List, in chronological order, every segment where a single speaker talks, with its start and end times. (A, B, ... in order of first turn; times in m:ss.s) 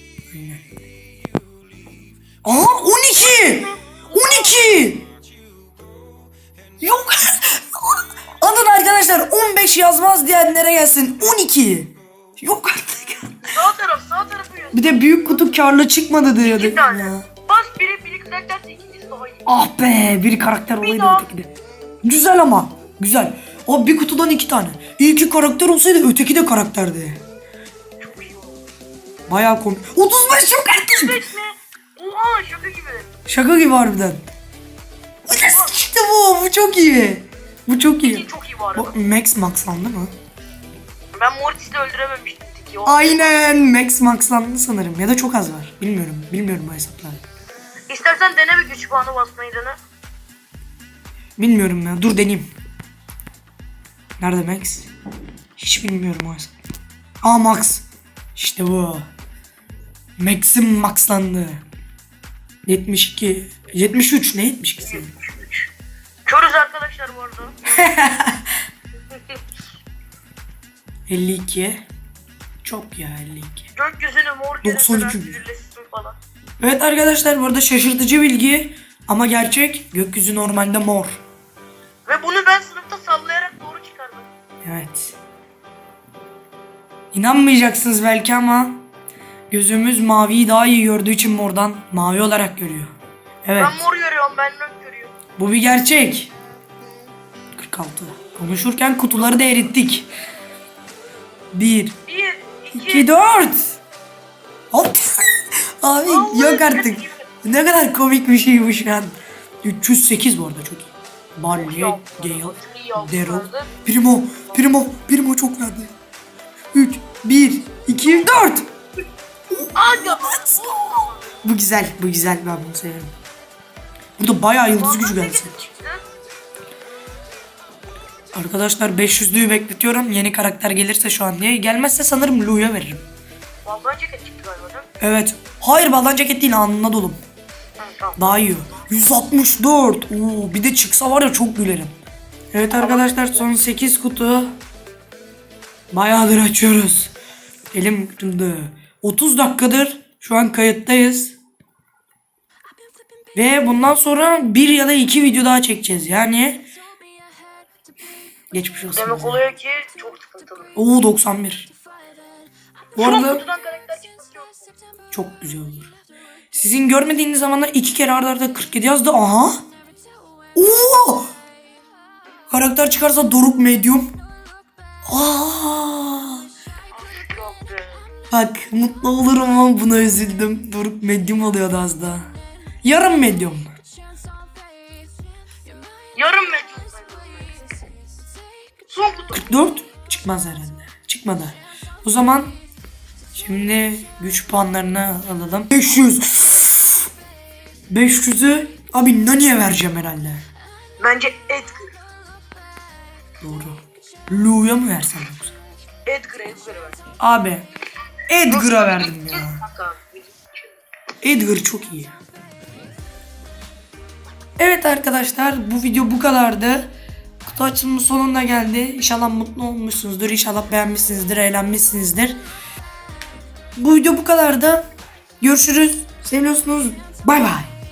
0:00.3-0:00.6 A
0:02.4-0:05.1 A
0:03.2-0:04.7 B
0:06.8-0:13.5 A
0:13.5-0:15.6 B
0:14.7-0:17.3 A
0:16.4-0:19.5 B
0:19.5-0:21.5 A
0:20.8-0:21.3 B
0:22.0-0:27.2 A
0:28.0-0:28.6 B
0:29.3-0:31.2 A
0:30.9-0:33.1 B
0:33.3-0:34.2 A
0:35.3-0:40.1 A
0:38.0-0:38.9 B
0:41.1-0:43.4 B
0:42.9-0:47.2 A
0:47.9-0:49.8 B
0:51.4-0:52.5 A
0:54.2-0:54.9 A
0:55.6-0:56.5 A
0:57.2-0:57.8 A
0:58.4-0:59.0 A
1:00.2-1:01.6 A
1:02.7-1:05.1 A
1:04.8-1:05.7 B
1:06.3-1:07.9 B
1:07.7-1:08.5 A
1:09.1-1:09.4 B
1:11.1-1:11.8 A
1:12.6-1:13.7 A
1:13.7-1:16.2 B
1:14.6-1:15.4 A
1:16.6-1:21.2 A
1:22.1-1:24.3 B
1:24.6-1:25.2 A
1:27.1-1:28.8 A
1:29.5-1:32.9 A
1:33.4-1:33.8 A
1:33.6-1:35.2 B
1:35.4-1:36.3 A
1:37.6-1:40.1 A
1:41.5-1:42.0 A
1:42.1-1:43.5 B
1:42.7-1:43.8 A
1:44.7-1:55.9 A
1:46.1-1:47.2 B
1:51.5-1:53.7 B
1:56.7-1:58.7 A
1:59.5-2:00.8 A
1:59.8-2:01.3 B
2:01.4-2:03.1 A
2:04.2-2:05.7 A
2:04.7-2:06.1 B
2:08.4-2:13.0 A
2:13.6-2:14.9 B
2:15.0-2:17.2 A
2:17.8-2:18.5 B
2:18.2-2:21.9 A
2:22.5-2:24.6 A
2:22.7-2:23.5 B
2:25.9-2:27.1 A
2:27.7-2:31.4 A
2:33.4-2:36.7 A
2:38.5-2:39.4 A
2:38.9-2:40.7 B
2:40.8-2:41.7 A
2:43.0-2:43.4 A
2:43.0-2:44.7 B
2:45.1-2:45.9 A
2:46.5-2:49.6 A
2:50.6-2:51.3 A
2:52.5-2:54.2 A
2:55.1-2:56.4 A
2:56.9-2:58.0 B
2:58.3-3:02.3 A
3:02.8-3:03.8 A
3:06.2-3:07.6 B
3:08.9-3:09.5 B
3:09.3-3:12.6 A
3:13.4-3:17.0 A
3:17.9-3:20.4 A
3:21.0-3:21.9 B
3:23.4-3:25.6 A
3:26.1-3:27.0 B
3:27.2-3:27.7 A
3:28.3-3:29.6 A
3:28.5-3:30.8 B
3:31.2-3:32.2 A
3:34.6-3:36.9 A
3:37.4-3:42.4 A
3:43.8-3:44.8 A
3:45.4-3:47.7 A